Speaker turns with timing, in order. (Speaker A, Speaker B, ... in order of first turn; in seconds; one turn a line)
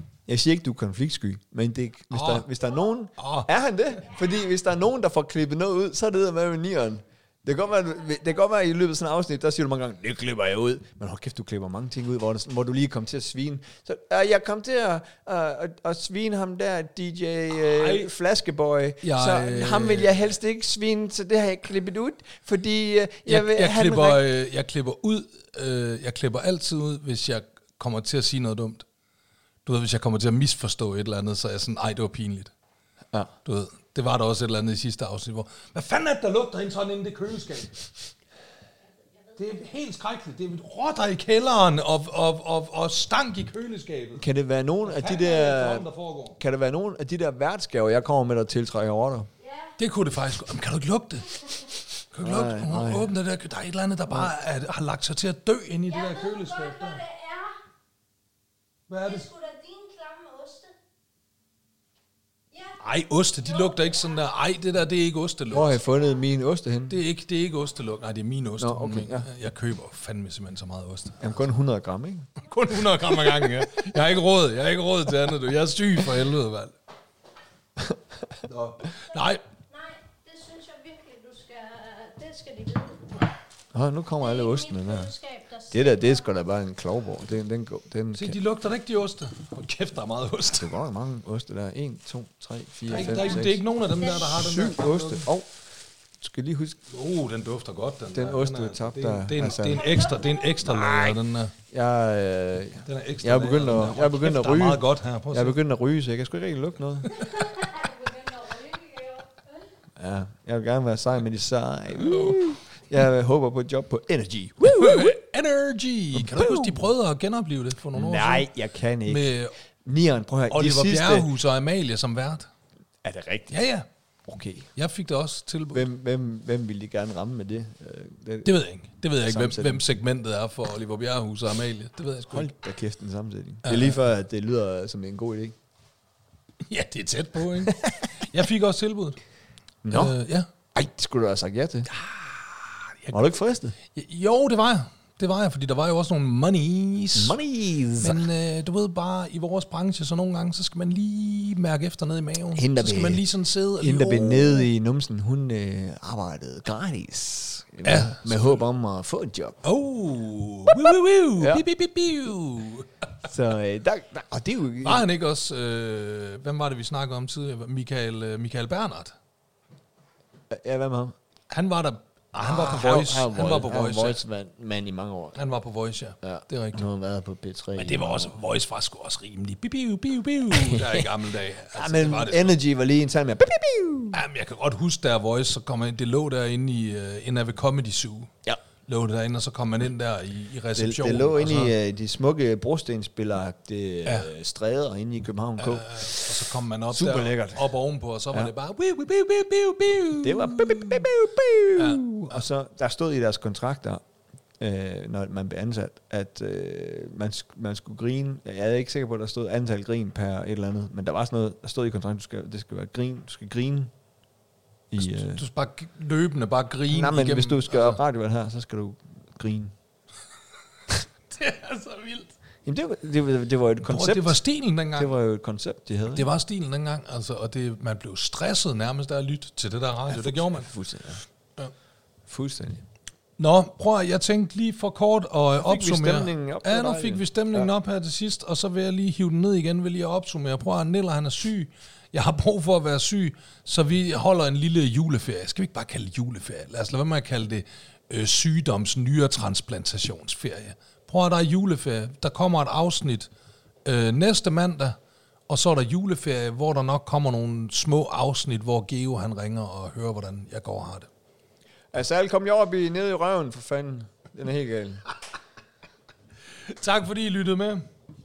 Speaker A: 0.3-24.3
Speaker B: 2.1-2.5
Speaker B: 3.2-3.5
Speaker B: 17.7-18.1
Speaker B: 19.0-20.3
Speaker B: 23.3-28.8
Speaker B: 29.7-32.5
Speaker B: 33.5-37.9
Speaker C: 39.3-39.7
Speaker B: 39.4-44.2
Speaker A: 44.1-49.3
Speaker B: 44.9-46.4
Speaker C: 49.4-49.8
Speaker B: 49.8-57.0
Speaker C: 51.4-51.7
Speaker A: 52.2-53.1
Speaker C: 55.9-57.6
Speaker B: 58.9-59.3
Speaker C: 59.0-60.7
Speaker C: 62.5-62.8
Speaker B: 62.8-65.8
Speaker C: 63.4-64.3
Speaker A: 65.5-67.0
Speaker C: 65.8-66.2
Speaker B: 66.9-71.4
Speaker A: 68.6-69.3
Speaker A: 71.2-72.3
Speaker B: 72.5-76.7
Speaker B: 78.5-79.4
Speaker C: 79.1-83.1
Speaker A: 83.7-85.1
Speaker C: 84.2-86.3
Speaker A: 85.7-88.4
Speaker B: 88.1-90.7
Speaker A: 90.5-95.5
Speaker B: 92.9-95.2
Speaker C: 92.9-93.5
Speaker C: 94.0-94.3
Speaker A: 96.2-96.8
Speaker B: 96.9-101.5
Speaker A: 98.1-100.0
Speaker C: 99.7-100.6
Speaker A: 100.6-107.1
Speaker B: 102.9-105.6
Speaker C: 107.1-109.7
Speaker A: 110.0-115.2
Speaker B: 112.0-112.5
Speaker B: 114.6-118.5
Speaker A: 116.1-116.9
Speaker A: 117.9-121.3
Speaker B: 119.1-119.5
Speaker B: 120.5-122.5
Speaker A: 123.0-123.6
Speaker B: 123.5-123.9
Speaker A: 124.3-124.7
Speaker B: 124.8-125.9
Speaker A: 125.7-128.5
Speaker B: 128.4-132.5
Speaker A: 129.2-129.9
Speaker A: 132.3-135.6
Speaker B: 133.7-134.0
Speaker B: 136.7-139.2
Speaker A: 139.8-140.2
Speaker B: 139.9-140.5
Speaker A: 140.8-141.9
Speaker B: 142.0-143.2
Speaker A: 143.1-143.8
Speaker B: 143.9-147.4
Speaker A: 147.2-148.3
Speaker B: 148.0-154.7
Speaker A: 152.6-153.2
Speaker A: 153.8-159.6
Speaker B: 157.8-158.6
Speaker B: 159.6-162.9
Speaker A: 161.4-161.6
Speaker A: 163.2-165.1
Speaker B: 164.8-169.1
Speaker A: 170.5-171.2
Speaker B: 171.5-174.2
Speaker A: 172.4-175.4
Speaker B: 175.4-176.8
Speaker A: 176.2-178.4
Speaker B: 177.8-182.6
Speaker A: 180.5-181.1
Speaker A: 181.7-184.2
Speaker B: 184.1-188.3
Speaker B: 188.9-191.8
Speaker A: 190.8-197.7
Speaker B: 195.6-201.0
Speaker A: 200.2-204.0
Speaker B: 201.8-202.4
Speaker A: 204.6-213.9
Speaker A: 214.9-215.4
Speaker B: 215.0-218.0
Speaker A: 216.9-219.7
Speaker B: 221.3-222.3
Speaker A: 222.7-224.4
Speaker B: 223.8-225.1
Speaker A: 224.9-226.3
Speaker B: 226.1-230.7
Speaker A: 230.1-231.2
Speaker A: 232.3-232.9
Speaker B: 233.4-253.3
Speaker A: 235.6-237.7
Speaker B: 253.8-254.9
Speaker B: 255.5-261.1
Speaker A: 261.9-265.1
Speaker B: 266.7-267.9